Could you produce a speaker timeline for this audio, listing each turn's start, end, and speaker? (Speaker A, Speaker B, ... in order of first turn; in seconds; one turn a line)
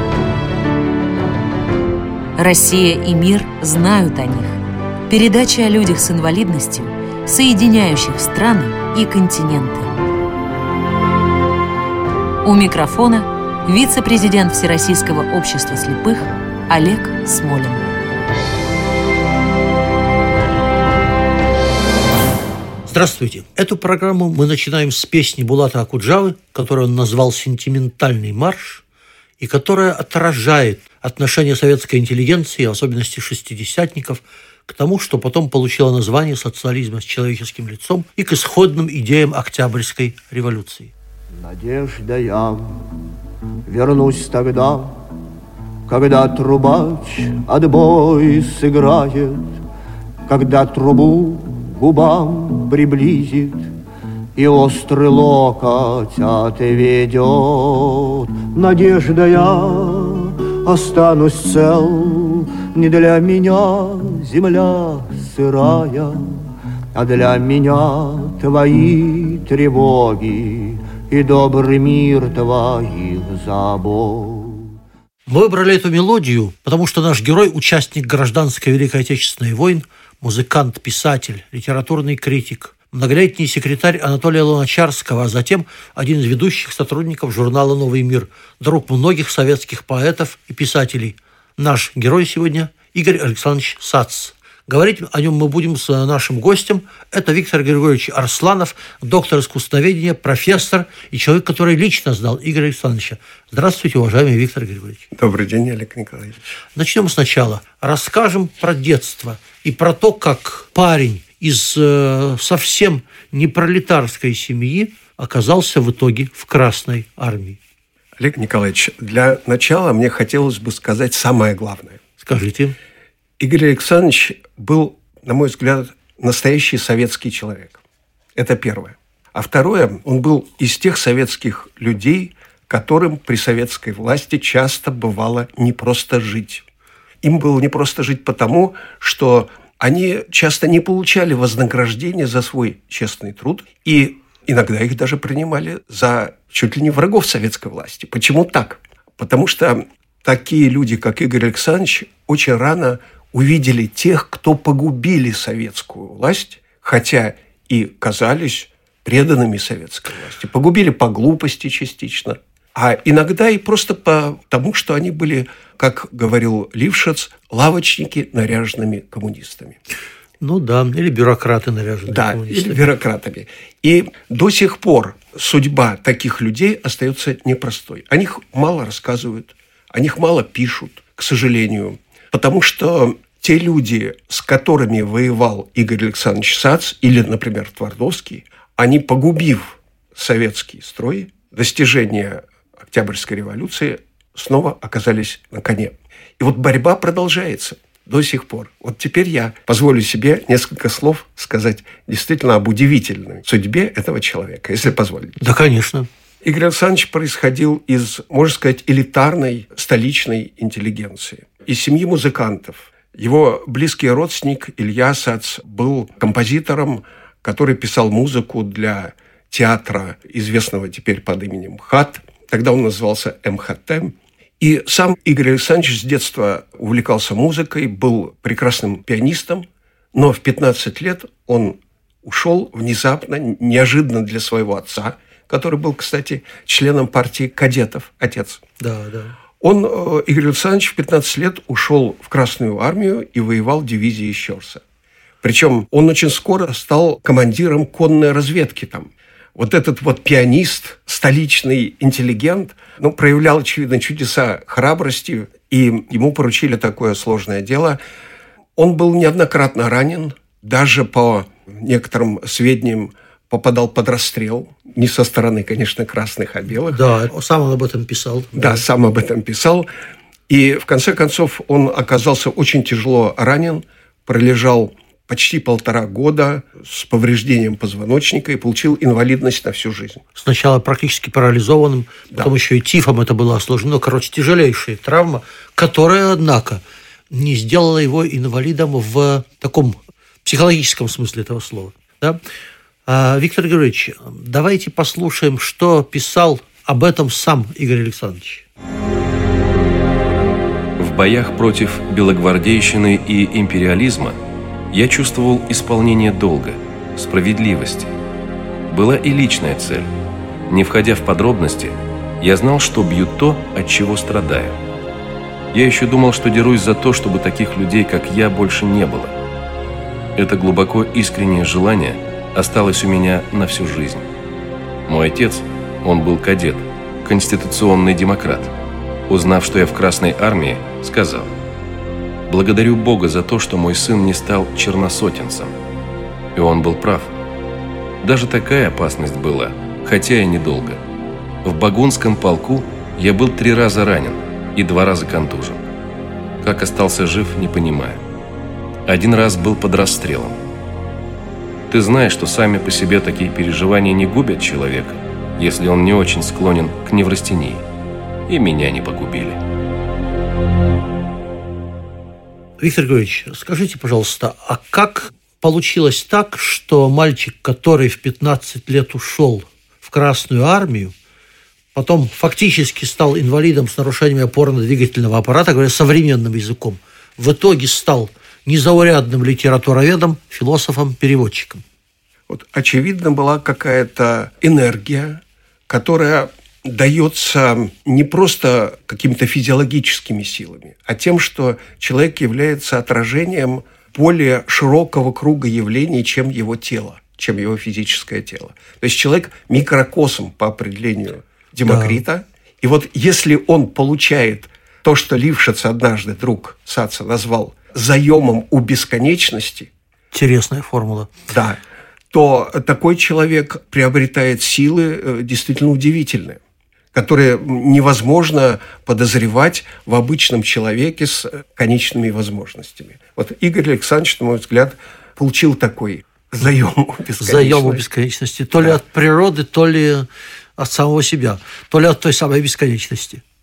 Speaker A: 2.4-4.6
Speaker A: 5.1-9.9
Speaker A: 12.4-17.9
Speaker B: 22.9-28.8
Speaker B: 29.4-40.9
Speaker C: 41.4-42.9
Speaker C: 43.7-45.1
Speaker C: 45.9-49.5
Speaker C: 50.3-53.7
Speaker C: 54.4-66.4
Speaker C: 67.0-74.7
Speaker B: 75.3-105.1
Speaker D: 105.1-106.4
Speaker B: 106.8-117.6
Speaker D: 118.2-122.0
Speaker B: 122.2-122.8
Speaker D: 123.4-127.8
Speaker D: 128.4-136.7
Speaker D: 137.2-169.8
Speaker B: 170.4-172.8
Speaker D: 172.1-205.4
Speaker B: 205.4-206.1
Speaker D: 206.4-238.6
Speaker B: 238.8-239.3
Speaker D: 239.6-244.8
Speaker D: 245.4-258.0
Speaker D: 258.8-267.0
Speaker B: 266.9-268.8
Speaker D: 268.5-269.9
Speaker D: 270.5-280.2
Speaker B: 280.4-292.4
Speaker B: 293.1-298.7
Speaker E: 301.0-304.4
Speaker E: 304.9-308.1
Speaker E: 308.9-310.1
Speaker E: 310.7-314.8
Speaker E: 315.7-319.4
Speaker E: 320.4-324.3
Speaker E: 325.1-328.7
Speaker E: 329.3-331.5
Speaker E: 332.5-335.7
Speaker E: 336.6-337.3
Speaker E: 338.2-341.0
Speaker E: 341.6-345.8
Speaker E: 346.6-348.2
Speaker E: 349.1-350.6
Speaker E: 351.9-357.8
Speaker E: 358.5-359.6
Speaker B: 362.8-371.1
Speaker B: 371.9-381.8
Speaker D: 382.5-409.9
Speaker B: 401.9-402.2
Speaker B: 410.3-411.4
Speaker D: 411.5-411.8
Speaker D: 412.3-416.6
Speaker D: 417.1-428.0
Speaker B: 427.4-433.4